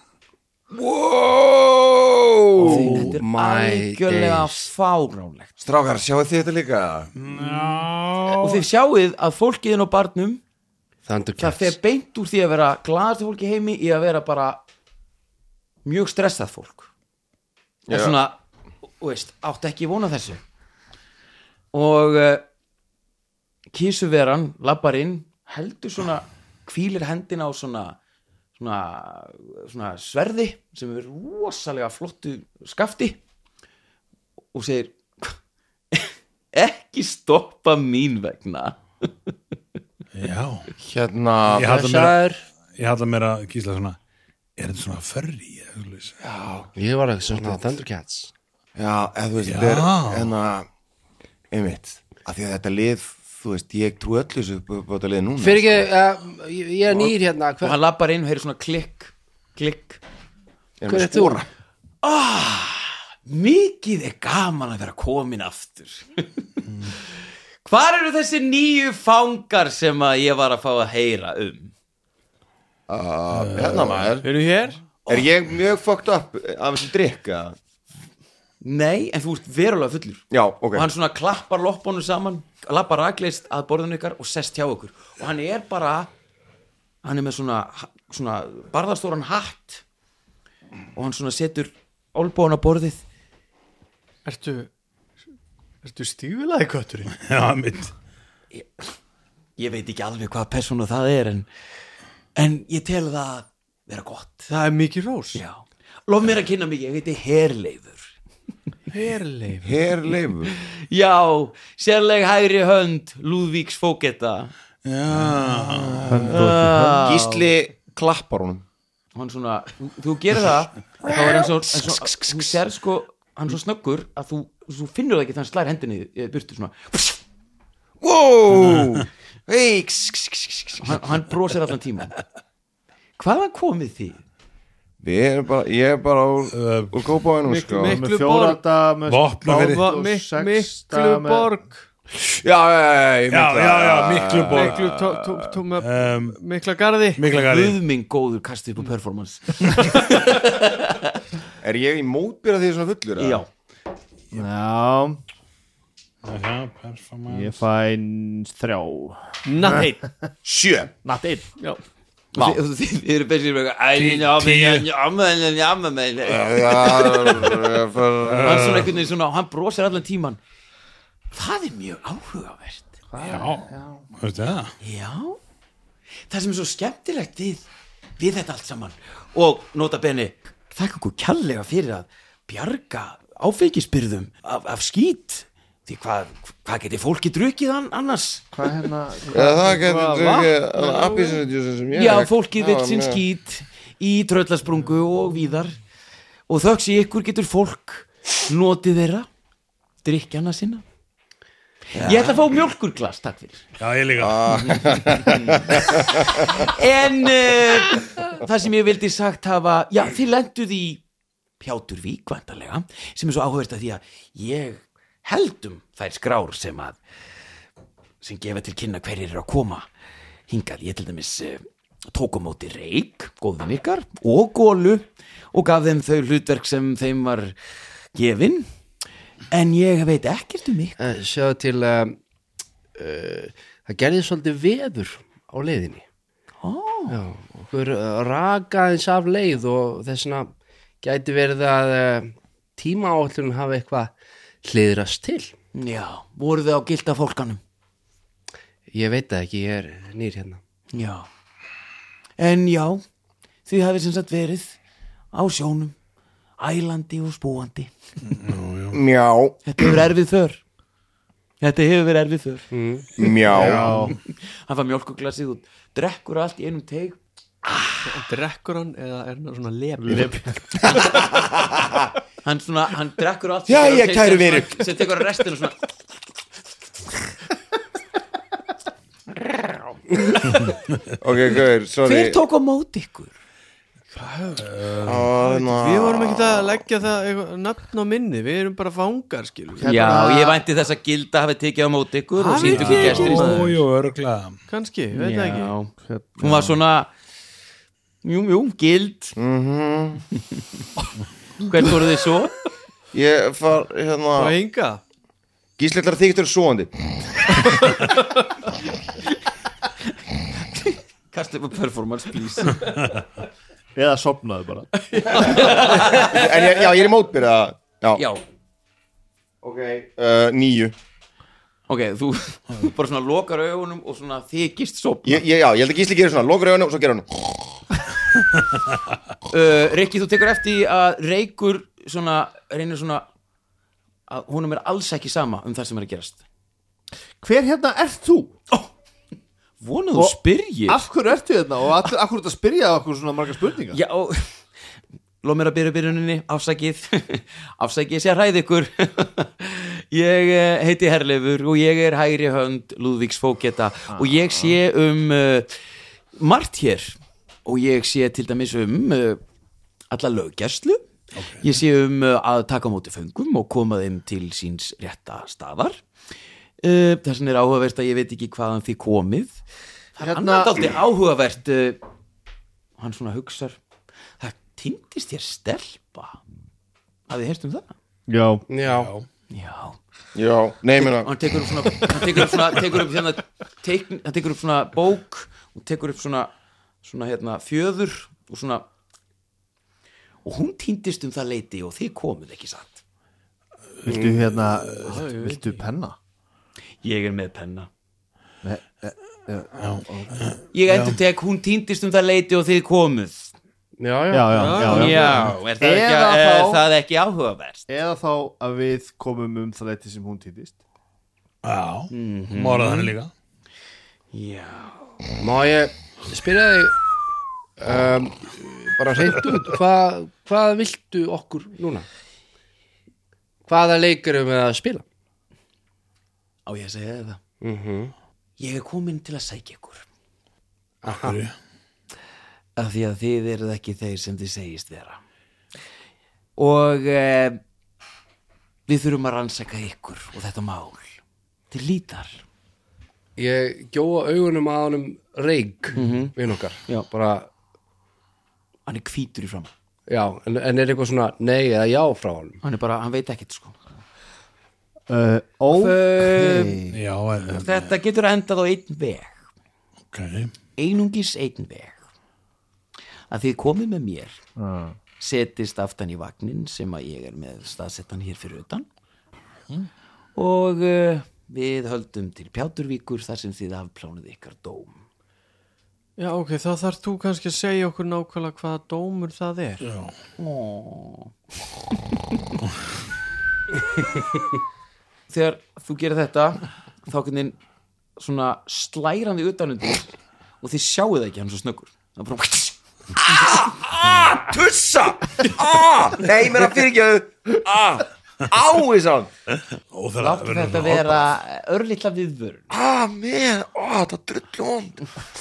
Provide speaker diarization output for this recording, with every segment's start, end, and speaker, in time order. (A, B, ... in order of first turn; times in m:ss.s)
0:00.7-0:03.1 A
0:02.6-0:04.7 B
0:02.6-0:05.5 C
0:05.6-0:07.1 A
0:07.2-0:08.6 D
0:08.4-0:10.4 C
0:11.0-0:11.7 B
0:11.4-0:14.6 C
0:15.8-0:16.9 C
0:17.9-0:18.2 A
0:17.9-0:18.4 C
0:19.0-0:20.4 C
0:21.7-0:22.4 C
0:23.7-0:28.0 C
0:28.6-0:33.2 C
0:34.5-0:35.4 C
0:35.9-0:39.3 C
0:40.1-0:40.7 D
0:40.8-0:41.7 A
0:41.5-0:44.0 D
0:41.6-0:42.4 B
0:44.6-0:46.2 D
0:46.2-0:46.7 A
0:46.7-0:48.3 B
0:48.8-0:50.7 A
0:49.4-0:50.3 D
0:51.5-0:55.9 A
0:55.4-0:57.8 B
0:57.6-1:00.0 C
1:00.8-1:01.5 A
1:00.9-1:01.4 B
1:02.0-1:06.4 C
1:07.6-1:11.7 C
1:12.9-1:14.3 A
1:13.3-1:14.1 D
1:14.2-1:14.8 E
1:15.1-1:17.6 A
1:18.6-1:26.1 C
1:20.3-1:20.8 A
1:27.0-1:29.8 C
1:30.9-1:33.0 C
1:34.2-1:34.7 E
1:35.8-1:37.1 E
1:37.1-1:37.9 D
1:38.5-1:38.9 C
1:39.6-1:41.5 C
1:42.4-1:44.5 C
1:44.5-1:45.4 E
1:45.3-1:48.1 C
1:48.9-1:49.7 E
1:49.6-1:50.5 A
1:50.6-1:54.5 C
1:54.8-1:56.5 D
1:55.6-1:58.6 A
1:56.1-1:57.2 F
1:56.5-1:56.7 C
1:59.1-2:07.2 C
2:01.1-2:02.5 A
2:08.0-2:11.0 A
2:10.8-2:12.1 C
2:13.2-2:14.2 C
2:15.0-2:18.0 A
2:16.5-2:16.9 D
2:17.4-2:18.6 E
2:17.9-2:21.5 F
2:19.1-2:19.9 D
2:19.6-2:21.8 E
2:22.3-2:25.6 A
2:23.3-2:24.9 D
2:24.5-2:27.2 E
2:25.8-2:26.4 D
2:27.2-2:27.8 D
2:27.3-2:31.2 C
2:31.6-2:33.4 A
2:33.2-2:33.5 C
2:34.3-2:35.2 F
2:36.2-2:37.6 D
2:37.3-2:40.0 F
2:39.4-2:40.0 E
2:40.4-2:40.9 A
2:41.0-2:41.5 F
2:42.3-2:47.6 C
2:44.0-2:44.8 D
2:46.2-2:48.9 A
2:48.2-2:48.9 D
2:48.4-2:50.4 C
2:51.3-2:52.9 C
2:53.1-2:54.0 F
2:53.2-2:54.7 D
2:54.8-2:55.4 C
2:56.3-2:57.6 C
2:58.2-3:08.7 C
3:08.5-3:11.4 F
3:09.3-3:13.2 A
3:11.9-3:15.7 C
3:16.5-3:19.3 C
3:20.0-3:20.8 C
3:21.9-3:22.4 A
3:21.9-3:23.7 C
3:23.8-3:25.1 D
3:24.2-3:26.6 A
3:24.5-3:31.0 C
3:31.6-3:37.0 C
3:38.2-3:39.9 C
3:40.5-3:47.6 C
3:48.1-3:48.7 C
3:49.5-3:51.0 C
3:51.0-3:52.2 B
3:52.9-3:56.0 B
3:56.6-3:57.2 C
3:57.1-4:04.1 B
4:04.6-4:05.5 B
4:05.7-4:07.6 C
4:08.9-4:10.6 B
4:10.9-4:11.3 C
4:12.4-4:13.0 C
4:13.6-4:14.8 C
4:15.3-4:15.9 C
4:16.6-4:17.9 C
4:18.3-4:19.0 D
4:18.9-4:19.6 A
4:19.6-4:20.6 C
4:21.6-4:22.6 C
4:22.7-4:23.1 B
4:23.2-4:24.1 A
4:23.5-4:24.2 F
4:24.2-4:28.0 C
4:28.0-4:31.0 E
4:30.0-4:31.0 F
4:31.0-4:32.0 A
4:32.4-4:35.8 C
4:33.7-4:34.9 A
4:41.2-4:42.4 A
4:42.0-4:43.4 C
4:44.1-4:50.2 E
4:44.6-4:45.2 D
4:45.0-4:46.8 A
4:49.8-4:50.6 F
4:49.8-4:53.7 C
4:52.3-4:53.8 E
4:52.6-4:54.6 D
4:54.7-4:55.8 E
4:55.1-4:57.1 C
4:56.0-4:56.8 F
4:58.2-4:59.4 C
4:59.4-5:00.2 A
5:00.3-5:00.6 C
5:01.6-5:02.6 C
5:03.1-5:04.6 A
5:04.4-5:05.0 E
5:05.8-5:08.0 A
5:10.6-5:12.9 C
5:13.9-5:14.9 F
5:15.1-5:16.2 E
5:15.4-5:16.6 C
5:15.5-5:18.2 A
5:18.2-5:18.4 C
5:19.6-5:20.9 A
5:21.9-5:25.4 C
5:25.2-5:27.8 A
5:29.5-5:33.3 C
5:34.3-5:36.4 C
5:37.4-5:38.5 F
5:39.8-5:41.0 C
5:40.9-5:44.0 F
5:43.9-5:44.6 C
5:45.4-5:55.8 C
5:54.1-5:54.8 F
5:56.3-5:59.4 C
6:00.1-6:01.0 C
6:01.4-6:01.6 D
6:01.6-6:06.0 C
6:06.8-6:09.6 C
6:10.2-6:12.0 C
6:10.2-6:10.9 F
6:13.0-6:13.8 C
6:14.4-6:16.4 C
6:17.3-6:17.9 C
6:18.3-6:18.6 F
6:18.7-6:19.1 B
6:18.9-6:19.2 D
6:19.5-6:20.0 C
6:20.3-6:21.3 A
6:20.9-6:26.5 C
6:27.0-6:28.8 C
6:30.4-6:33.0 C
6:34.0-6:36.2 F
6:34.0-6:34.4 B
6:35.0-6:35.8 E
6:37.0-6:37.9 C
6:38.6-6:40.6 F
6:39.8-6:41.2 D
6:40.7-6:43.5 C
6:44.0-6:45.1 B
6:44.3-6:46.8 F
6:44.6-6:45.4 E
6:44.8-6:47.8 C
6:45.1-6:45.5 D
6:47.9-6:50.8 F
6:51.6-6:53.3 D
6:52.1-6:53.1 C
6:54.3-6:55.0 C
6:55.4-6:56.9 B
6:57.8-7:02.0 B
7:03.7-7:05.0 B
7:06.6-7:07.4 C
7:07.6-7:08.1 B
7:08.6-7:10.0 C
7:11.0-7:11.4 B
7:11.1-7:11.5 D
7:12.8-7:15.2 C
7:16.6-7:17.6 C
7:18.9-7:21.2 C
7:21.7-7:22.4 C
7:23.4-7:27.5 B
7:25.9-7:26.3 C
7:28.9-7:29.7 C
7:30.1-7:32.6 B
7:32.6-7:33.8 C
7:35.1-7:37.0 F
7:35.7-7:36.8 C
7:36.9-7:37.9 D
7:37.5-7:39.4 C
7:40.1-7:40.5 D
7:40.8-7:42.0 C
7:43.3-7:44.4 C
7:44.6-7:45.0 F
7:45.2-7:48.8 C
7:50.4-7:55.0 C
7:56.2-7:59.8 E
7:59.8-8:00.1 D
8:00.4-8:01.3 C
8:05.3-8:07.6 C
8:08.2-8:12.8 C
8:13.2-8:19.3 A
8:19.9-8:21.2 D
8:20.2-8:22.6 C
8:22.7-8:25.1 A